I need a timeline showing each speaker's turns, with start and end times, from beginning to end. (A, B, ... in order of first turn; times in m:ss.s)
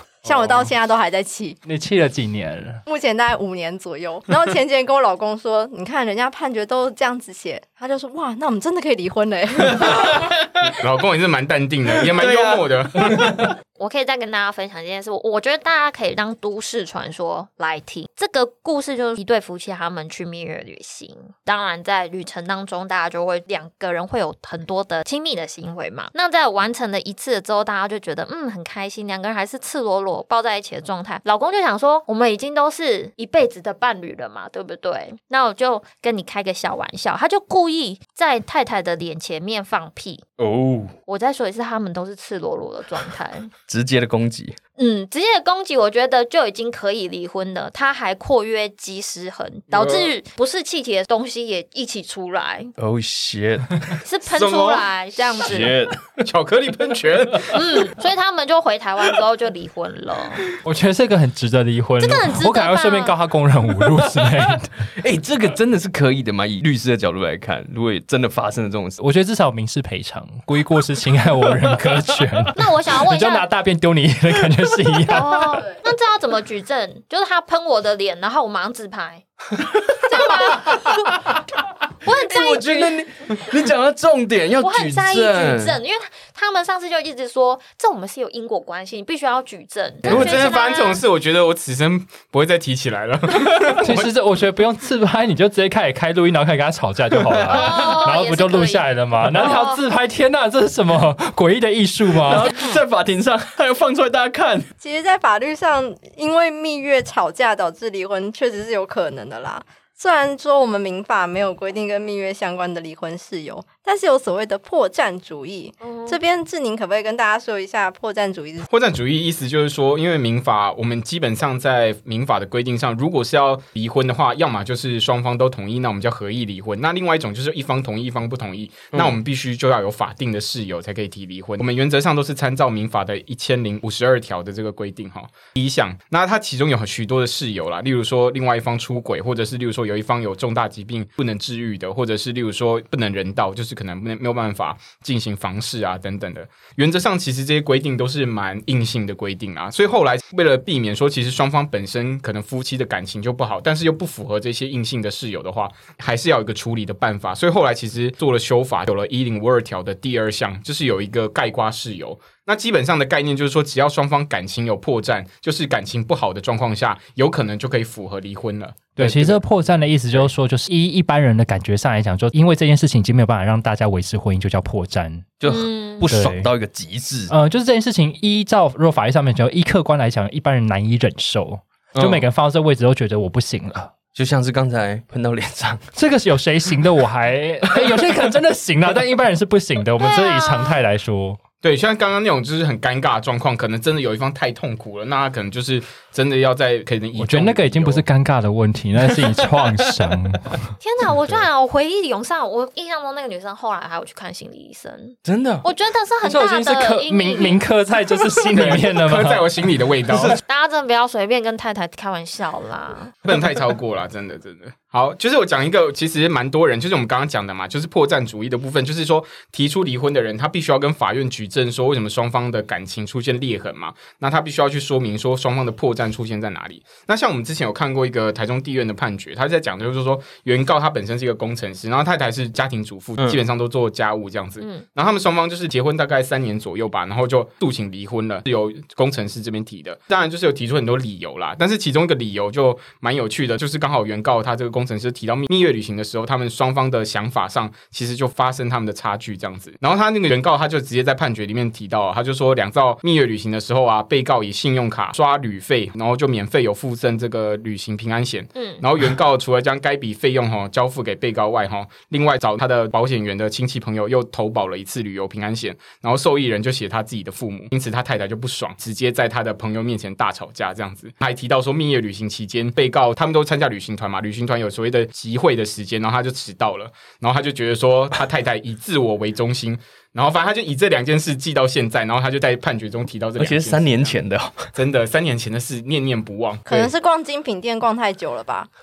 0:00.2-0:01.6 A
0:00.2-0:00.7 B
0:01.6-0:02.8 C
0:02.9-0:10.2 A
0:09.8-0:10.7 D
0:10.7-0:13.4 B
0:12.0-0:13.4 D
0:13.8-0:40.2 E
0:40.4-0:40.9 D
0:41.1-0:43.5 E
0:43.7-0:44.6 D
0:44.8-0:52.7 E
0:49.7-0:50.1 B
0:52.8-0:53.9 D
0:54.0-0:55.7 E
0:54.3-0:54.8 B
0:55.4-0:56.1 D
0:56.2-0:57.6 B
0:57.5-1:00.5 E
1:00.6-1:04.7 C
1:02.0-1:03.1 E
1:05.0-1:09.0 D
1:09.0-1:15.7 C
1:12.6-1:13.5 E
1:15.0-1:19.2 E
1:19.9-1:21.4 D
1:20.0-1:21.3 E
1:22.0-1:23.0 E
1:22.0-1:25.8 D
1:24.6-1:31.0 E
1:30.0-1:34.1 B
1:33.8-1:42.5 C
1:37.1-1:37.8 D
1:37.5-1:39.8 E
1:42.2-1:44.7 D
1:44.8-1:58.7 A
1:55.8-1:56.2 E
1:58.7-2:49.4 B
2:49.0-2:55.3 C
2:55.4-2:57.3 D
2:55.4-2:56.1 E
2:56.1-2:56.5 C
2:57.3-3:03.9 C
3:01.9-3:02.2 D
3:04.1-3:05.8 D
3:05.9-3:11.4 C
3:10.0-3:10.8 E
3:11.6-3:18.0 B
3:17.2-3:20.7 C
3:20.8-3:27.6 E
3:25.2-3:25.6 D
3:26.2-3:29.5 C
3:28.5-3:30.4 B
3:30.1-3:30.4 D
3:30.5-3:33.2 E
3:33.2-4:44.2 B
3:54.6-3:54.8 E
4:18.6-4:18.8 E
4:43.4-4:44.7 D
4:44.7-4:46.9 B
4:46.7-4:48.7 A